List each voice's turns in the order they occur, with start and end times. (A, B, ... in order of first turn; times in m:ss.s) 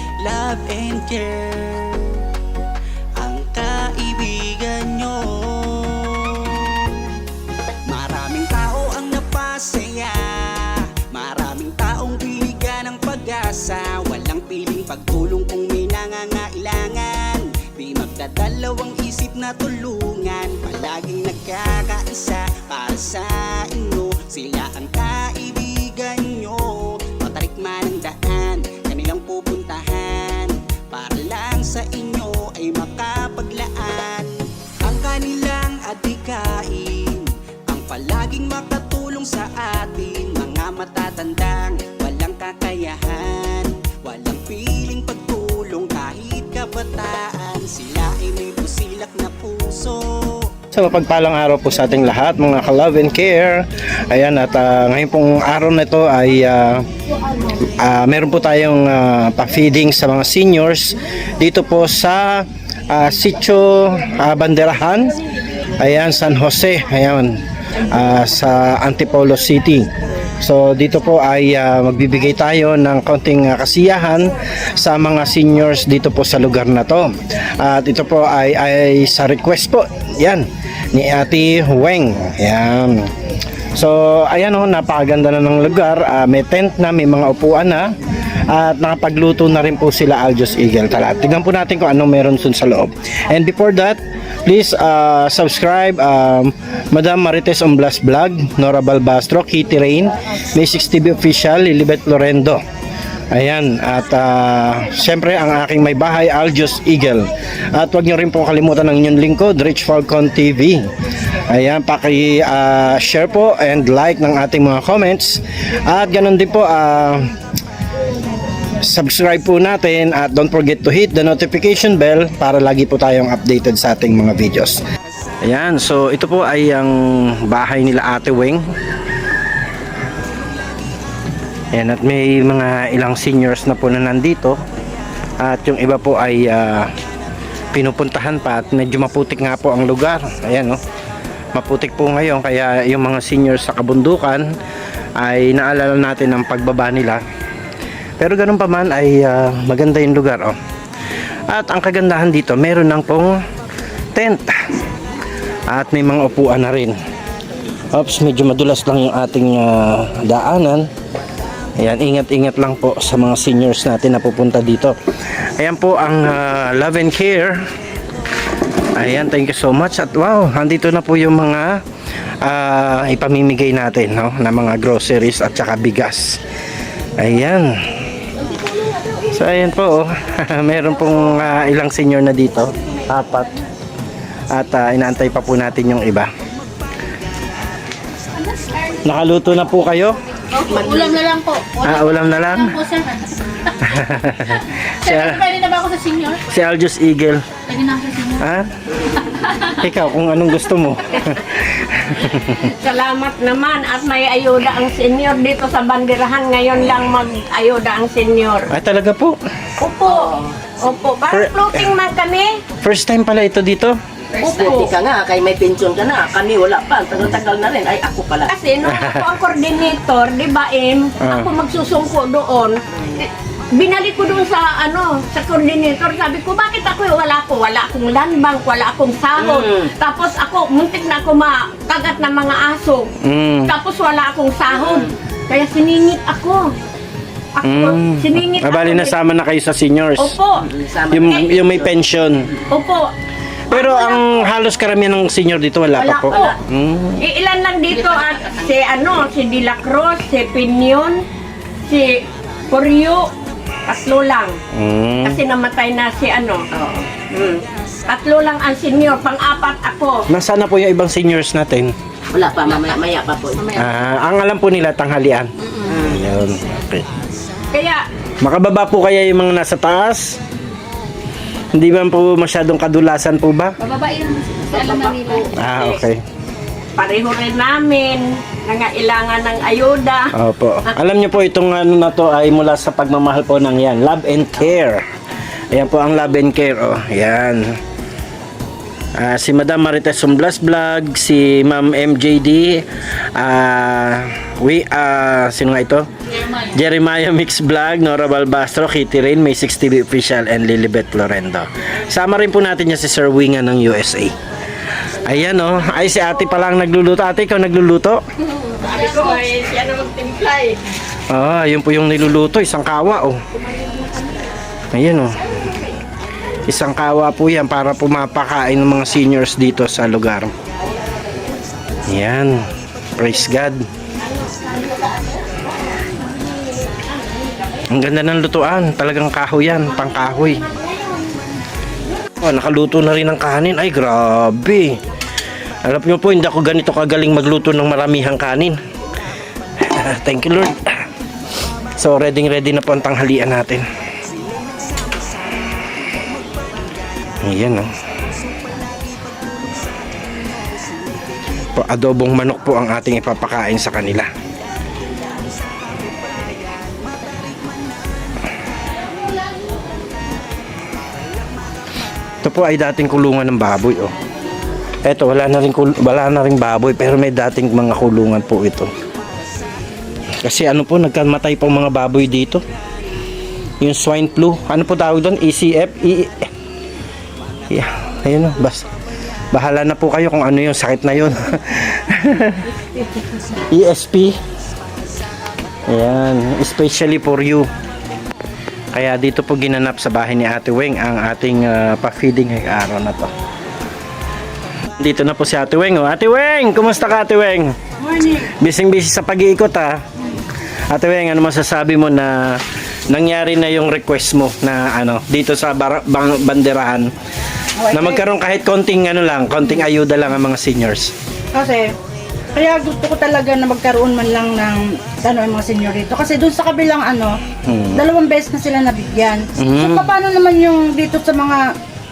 0:00.2-0:02.3 A
0:03.2-0:07.2 A
0:07.9-0:50.5 A
0:50.7-0:56.8 B
0:57.6-1:05.1 B
1:05.8-1:09.9 B
1:10.4-1:23.1 B
1:23.7-1:27.9 B
1:28.5-1:42.6 B
1:43.3-1:50.9 B
1:51.4-1:57.3 B
1:58.8-2:04.8 B
2:05.4-2:08.6 B
2:10.2-2:11.4 A
2:11.7-2:14.6 B
2:15.4-2:16.9 B
2:17.7-2:20.8 B
2:21.5-2:24.5 B
2:25.2-2:27.2 B
2:28.2-2:30.6 B
2:31.5-2:33.4 B
2:34.1-2:34.8 B
2:35.7-2:37.0 B
2:37.9-2:40.9 B
2:41.8-2:47.6 B
2:49.0-2:51.8 B
2:52.4-2:56.4 B
2:57.2-2:57.7 B
2:58.4-2:59.3 C
2:59.3-3:03.6 B
3:04.5-3:06.3 B
3:06.4-3:09.4 A
3:08.5-3:09.0 D
3:09.0-3:10.2 B
3:10.5-3:12.0 D
3:11.8-3:12.8 B
3:12.6-3:13.5 D
3:13.8-3:15.4 B
3:15.1-3:16.4 D
3:16.5-3:17.4 B
3:17.7-3:18.4 D
3:18.4-3:18.7 B
3:19.3-3:19.7 D
3:19.8-3:22.7 B
3:22.5-3:28.7 C
3:28.7-3:29.4 B
3:29.8-3:32.6 C
3:30.0-3:30.6 E
3:32.8-3:34.0 B
3:34.4-3:38.5 E
3:34.4-3:34.9 C
3:38.5-3:53.1 C
3:38.9-3:39.2 B
3:41.2-3:41.5 B
3:49.4-3:49.9 E
3:53.2-3:53.7 B
3:53.6-3:56.7 C
3:54.7-3:55.1 E
3:57.5-3:59.2 C
3:57.6-4:00.4 B
4:00.2-4:00.6 C
4:00.6-4:01.9 E
4:01.1-4:02.5 B
4:01.3-4:01.6 C
4:02.7-4:03.1 C
4:03.7-4:04.4 C
4:03.7-4:07.2 B
4:06.0-4:06.5 F
4:06.3-4:06.5 E
4:07.2-4:11.2 C
4:11.9-4:13.3 C
4:13.8-4:14.6 C
4:14.7-4:15.4 B
4:15.2-4:16.7 C
4:16.7-4:17.6 E
4:18.1-4:20.3 C
4:20.3-4:21.9 B
4:22.3-4:23.8 E
4:23.7-4:27.0 B
4:25.6-4:26.0 D
4:25.9-4:26.2 E
4:27.7-4:28.0 C
4:28.4-4:30.4 B
4:31.7-4:33.7 B
4:33.9-4:35.5 D
4:34.7-4:36.0 C
4:34.7-4:35.1 E
4:35.6-4:36.2 B
4:37.0-4:40.3 C
4:40.3-4:45.0 B
4:45.7-4:47.8 B
4:49.2-4:56.1 B
4:56.3-4:56.7 D
4:56.7-5:04.4 B
5:05.2-5:08.2 B
5:08.5-5:10.8 C
5:11.3-5:13.4 B
5:13.6-5:14.3 C
5:14.9-5:15.4 B
5:16.6-5:20.5 B
5:21.9-5:22.7 A
5:22.0-5:23.9 B
5:24.4-5:25.4 C
5:26.0-5:27.8 C
5:27.9-5:30.6 B
5:29.9-5:31.3 C
5:32.4-5:35.0 B
5:35.8-5:38.8 B
5:39.8-5:41.0 B
5:42.0-5:43.9 B
5:44.2-5:52.0 A
5:47.4-5:47.9 B
5:51.8-5:54.3 B
5:54.4-6:02.0 A
6:02.4-6:04.1 B
6:05.0-6:08.9 B
6:09.0-6:09.9 A
6:10.4-6:12.6 B
6:13.8-6:16.5 B
6:17.7-6:18.8 B
6:19.5-6:22.7 B
6:23.6-6:24.4 B
6:25.9-6:27.7 B
6:28.9-6:33.3 B
6:35.0-6:37.8 B
6:38.0-6:38.5 F
6:38.5-6:40.0 B
6:40.9-6:47.1 B
6:47.8-6:48.2 F
6:47.9-6:51.1 B
6:51.5-6:51.9 F
6:52.5-6:57.4 F
6:57.6-6:58.0 B
6:57.9-7:01.7 F
6:59.6-7:00.1 B